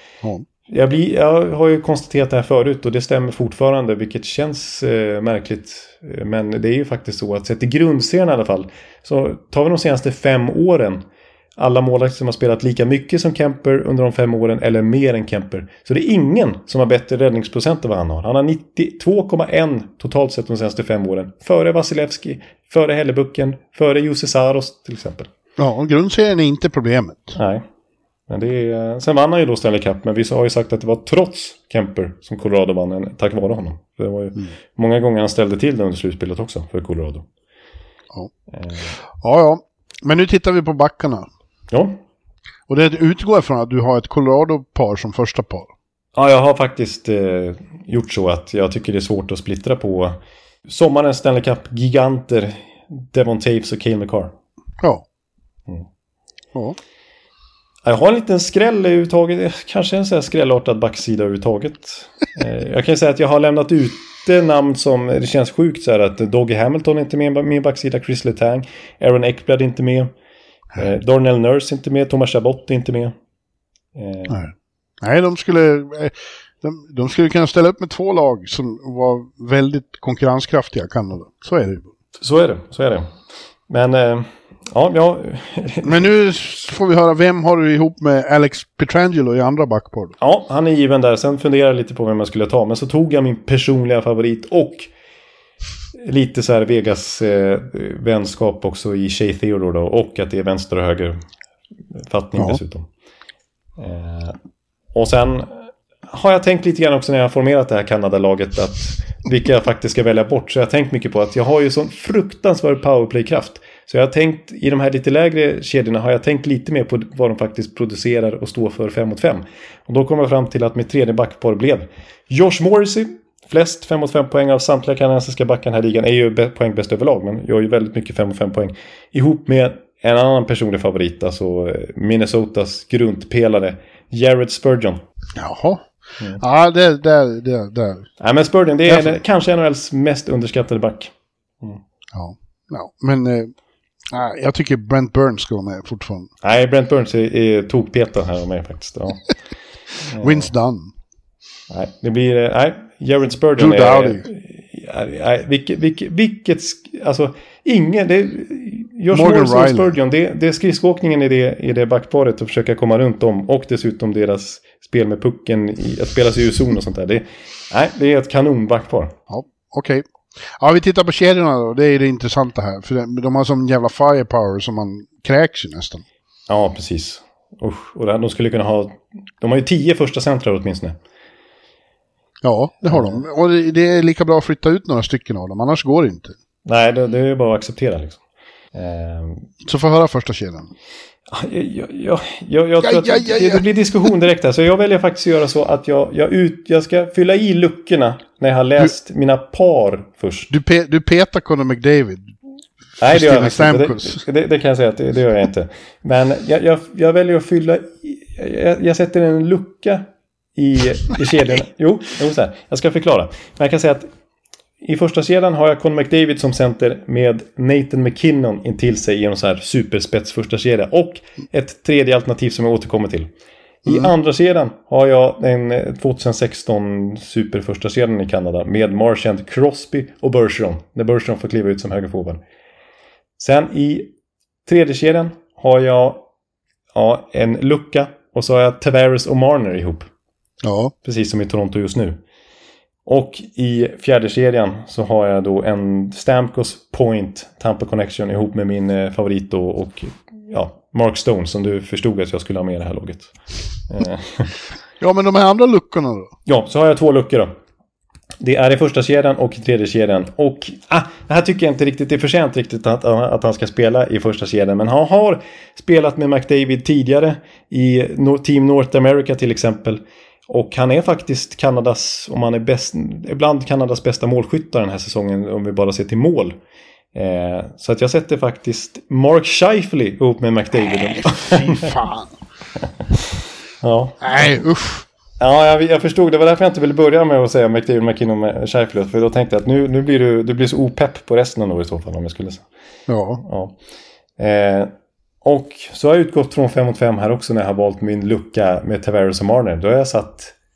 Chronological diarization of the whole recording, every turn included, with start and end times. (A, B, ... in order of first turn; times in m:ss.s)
0:00.7-0:11.0 A
0:11.6-0:25.3 A
0:25.6-0:27.4 B
0:27.4-0:27.7 A
0:28.3-0:37.3 A
0:38.5-0:38.9 A
0:39.1-0:41.3 B
0:41.7-0:42.0 A
0:42.7-0:45.7 B
0:46.2-0:54.3 A
0:57.8-1:10.1 A
1:10.8-1:13.1 A
1:13.9-1:14.4 A
1:14.3-1:21.9 B
1:22.2-1:23.1 A
1:23.7-1:26.0 A
1:25.8-1:30.1 B
1:30.2-1:34.9 A
1:36.0-1:41.2 A
1:41.9-1:42.9 A
1:43.8-1:44.4 A
1:44.9-2:15.0 A
2:15.4-2:15.9 B
2:16.4-2:18.1 B
2:18.2-2:21.8 A
2:22.1-2:23.5 B
2:24.1-2:26.3 B
2:26.4-2:29.3 A
2:30.1-2:30.5 A
2:30.2-2:30.9 B
2:31.7-2:49.2 A
2:33.6-2:34.2 B
2:39.1-2:39.9 B
2:49.3-2:56.0 B
2:56.5-3:01.0 A
3:02.4-3:06.4 B
3:02.9-3:03.2 A
3:06.6-3:08.2 A
3:08.7-3:09.5 A
3:09.6-3:10.7 B
3:11.3-3:20.5 A
3:12.8-3:13.7 B
3:20.5-3:22.4 B
3:23.0-3:34.1 A
3:23.0-3:24.2 B
3:34.8-3:43.3 A
3:43.8-3:52.4 A
3:53.4-3:54.1 A
3:54.7-3:56.3 A
3:56.9-4:00.1 A
4:00.6-4:00.9 B
4:01.0-4:02.2 A
4:03.1-4:13.3 A
4:13.9-4:14.5 A
4:15.0-4:16.3 B
4:16.5-4:17.5 A
4:18.4-4:36.6 A
4:37.1-4:42.0 A
4:41.2-4:42.3 B
4:43.8-4:44.6 A
4:44.2-4:45.0 B
4:45.4-4:52.6 A
4:53.1-4:53.4 B
4:53.4-4:53.8 A
4:54.4-5:00.6 A